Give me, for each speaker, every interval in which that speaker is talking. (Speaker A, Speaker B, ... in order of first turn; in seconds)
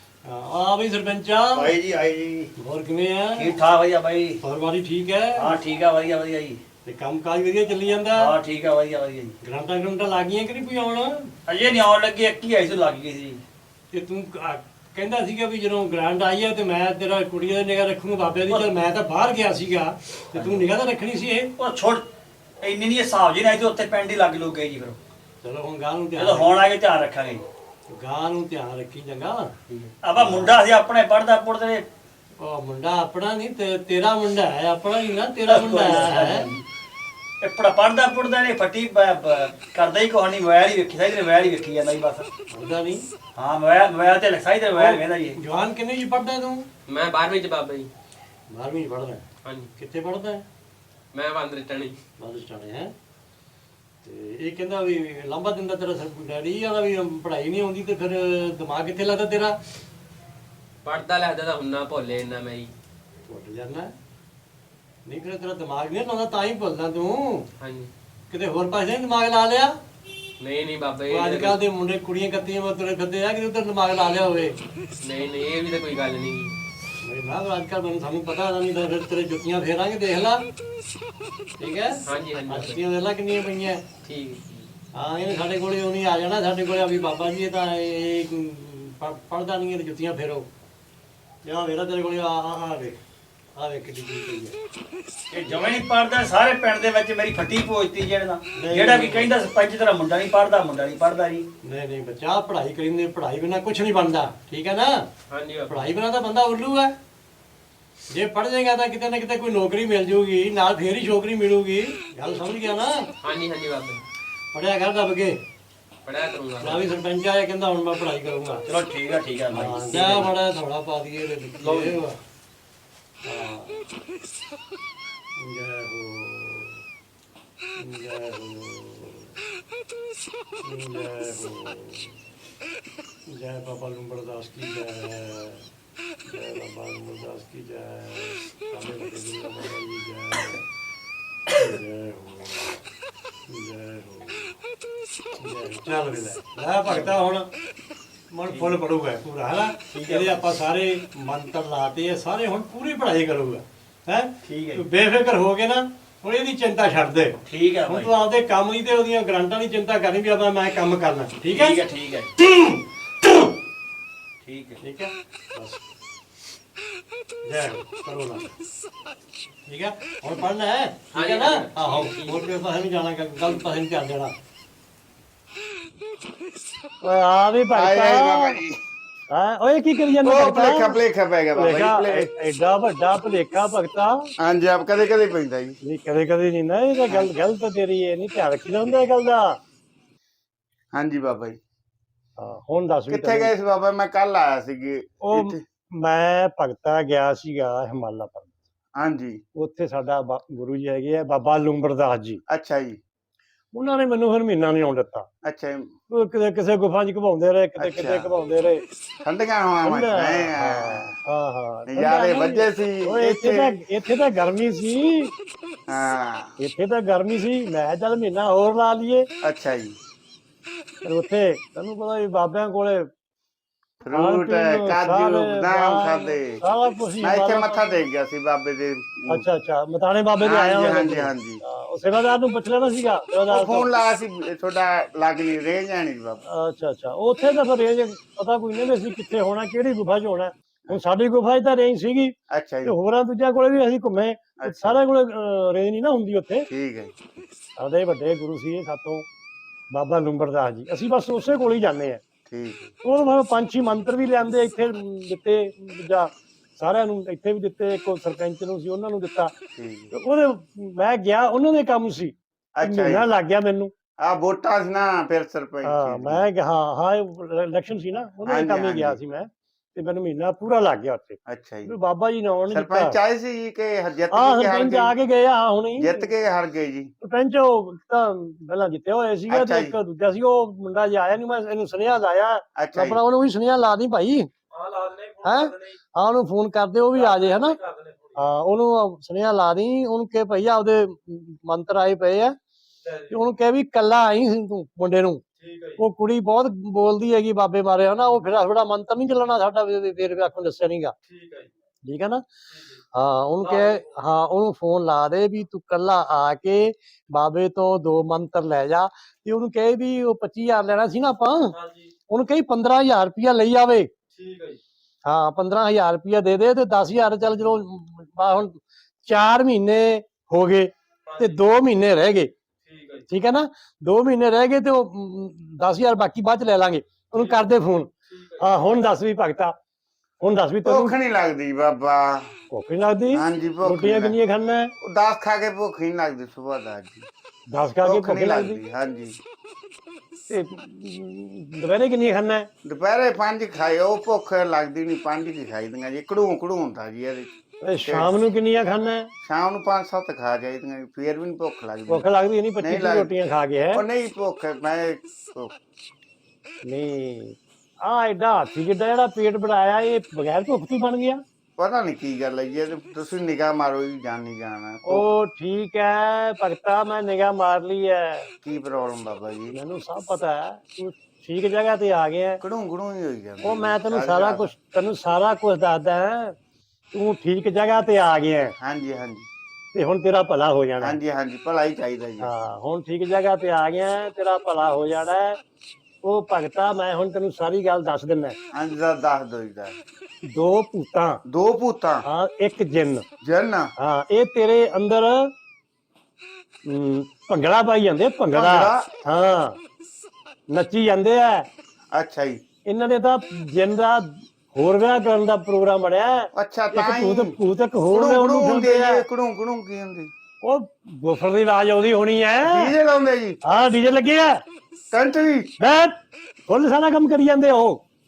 Speaker A: 0.2-1.8, 2.6-3.5, 4.4-5.6, 6.8-8.3, 9.4-11.3, 13.9-21.5, 25.4-26.6, 27.9-29.5, 30.1-30.6, 32.4-36.5, 42.5-43.0, 44.8-46.6, 48.5-49.2, 49.8-50.5, 52.2-52.9, 54.0-59.6, 63.3-63.9, 65.1-67.5, 68.3-69.8, 71.1-74.6, 77.0-80.4, 81.6-83.8, 85.0-90.5, 91.5-93.0, 93.6-94.6, 98.5-99.3, 101.6-105.0, 105.7-107.0, 108.1-113.1, 114.5-115.4, 116.6-118.6, 119.5-122.2, 123.2-123.9, 125.4-126.8, 127.8-129.3, 130.6-132.2, 133.3-135.7, 136.3-140.7, 141.5-142.8, 143.5-144.5, 145.4-147.5, 148.3-161.8, 162.4-163.5, 164.8-165.8, 167.4-168.5, 169.7-174.3, 177.0-178.6, 179.3-181.0, 181.6-184.2, 185.8-189.6, 192.4-193.5, 195.2-198.5, 199.6-202.4, 203.7-205.3, 206.1-208.8, 209.8-215.3, 216.6-219.3, 221.0-223.1, 224.1-228.0, 229.3-233.9, 236.5-246.7, 247.8-249.3, 249.9-252.2, 253.0-259.5, 260.1-263.9, 265.9-273.2, 274.3-276.3, 277.2-284.5, 285.4-287.8, 288.4-292.6, 293.3-295.4, 296.0-301.1, 302.1-302.4, 303.1-311.8, 312.3-314.1, 315.2-322.5, 323.3-329.8, 330.4-331.2, 332.7-334.9, 337.7-338.8, 340.5-342.7, 347.9-349.3, 352.1-354.0, 356.9-361.4, 365.1-368.5, 369.7-372.6, 373.6-376.6, 377.1-378.7, 379.9-381.2, 382.4-385.6, 386.2-388.6, 390.5-391.4, 392.2-393.2, 394.0-395.5, 396.9-399.8, 400.7-401.7, 402.9-409.2, 410.6-412.9, 413.7-414.6, 415.8-416.1, 416.7-418.0
Speaker B: 1.6-2.5, 177.7-178.8, 180.2-182.3, 184.4-185.8, 190.9-191.6, 193.1-195.6, 199.0-199.4, 202.5-203.0, 205.4-205.9, 207.8-208.3, 209.2-211.2, 211.9-213.8, 215.9-216.6, 219.4-220.0, 224.0-226.6, 227.2-229.4, 230.4-231.6, 233.5-236.4, 242.5-242.9, 244.6-245.0, 246.7-247.1, 252.5-252.9, 259.8-260.1, 262.8-263.3, 264.2-266.5, 268.4-269.2, 271.5-271.9, 272.7-275.1, 276.0-277.1, 279.5-280.0, 282.8-283.2, 330.9-332.5, 333.3-334.4, 335.0-337.3, 338.0-339.4, 342.9-347.5, 348.1-348.3, 349.4-352.3, 352.8-353.3, 353.9-355.7, 361.8-365.3, 368.6-369.8, 372.6-374.7, 378.8-379.5, 381.0-382.5, 388.7-390.0, 391.5-392.2, 393.4-393.9, 398.5-399.1, 402.1-402.6, 406.5-407.6, 408.1-410.3, 412.6-413.6, 415.1-415.7
Speaker C: 1.7-2.4, 3.4-4.4, 5.4-6.6, 8.2-9.3, 11.5-13.4, 20.3-20.7, 21.6-22.0, 22.6-25.0, 26.2-27.4, 29.7-31.9, 35.5-36.6, 37.4-42.3, 43.4-45.4, 95.3-101.5, 118.7-120.3, 146.9-147.1, 148.5-148.7, 149.9-150.4, 154.5-154.8, 157.5-158.1, 161.5-162.3, 164.4-164.8
Speaker D: 46.9-47.9, 49.4-49.7, 51.1-52.0, 60.8-62.7, 67.6-67.9, 70.4-71.6, 75.0-76.5, 82.1-82.8, 84.0-84.7, 105.3-105.9, 113.2-114.0, 116.0-116.8, 121.6-122.0, 171.1-172.5, 284.7-286.0, 287.1-288.4, 293.1-293.4, 295.6-296.0, 301.3-301.7, 302.8-303.0, 303.6-304.0, 311.7-312.1, 314.3-314.8, 321.3-321.6, 322.9-323.2